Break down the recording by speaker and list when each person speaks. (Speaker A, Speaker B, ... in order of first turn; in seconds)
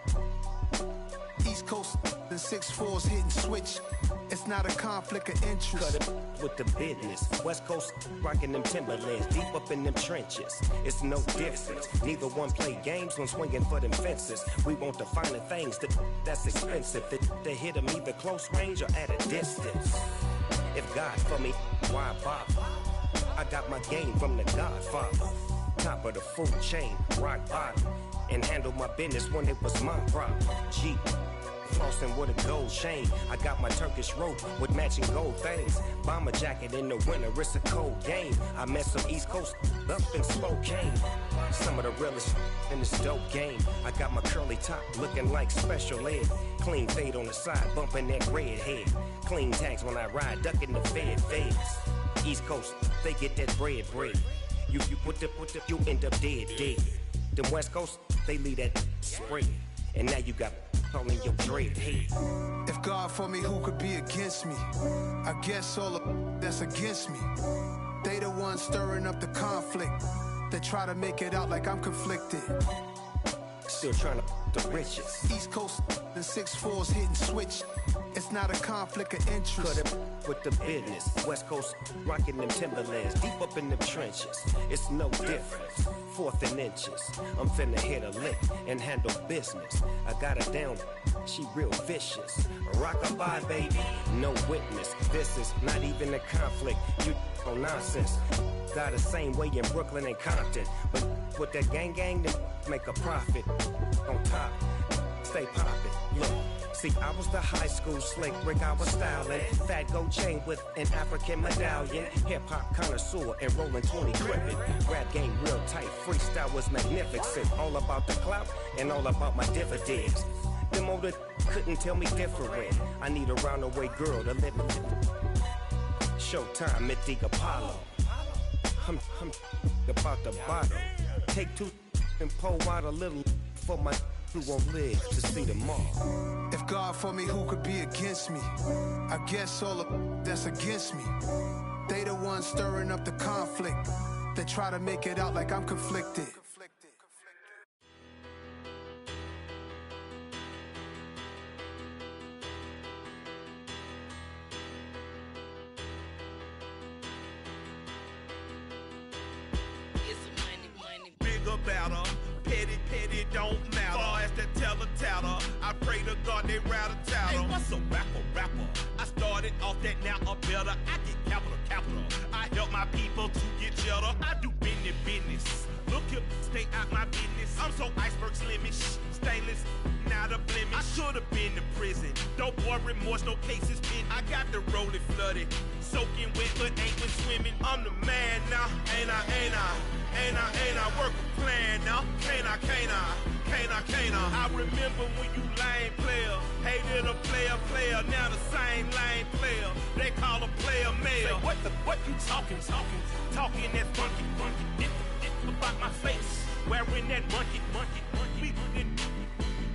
Speaker A: 1.4-6.0, 62.7-64.7, 65.2-67.3, 68.0-70.0, 70.5-72.5, 75.3-79.8, 136.5-138.5, 139.1-141.2, 141.9-147.1
Speaker B: 5.7-20.1, 20.7-22.7, 23.3-31.1, 31.6-62.1, 73.7-75.3, 79.6-103.5, 104.0-104.6, 105.2-125.0, 126.2-127.9, 128.8-136.0
Speaker C: 161.2-209.1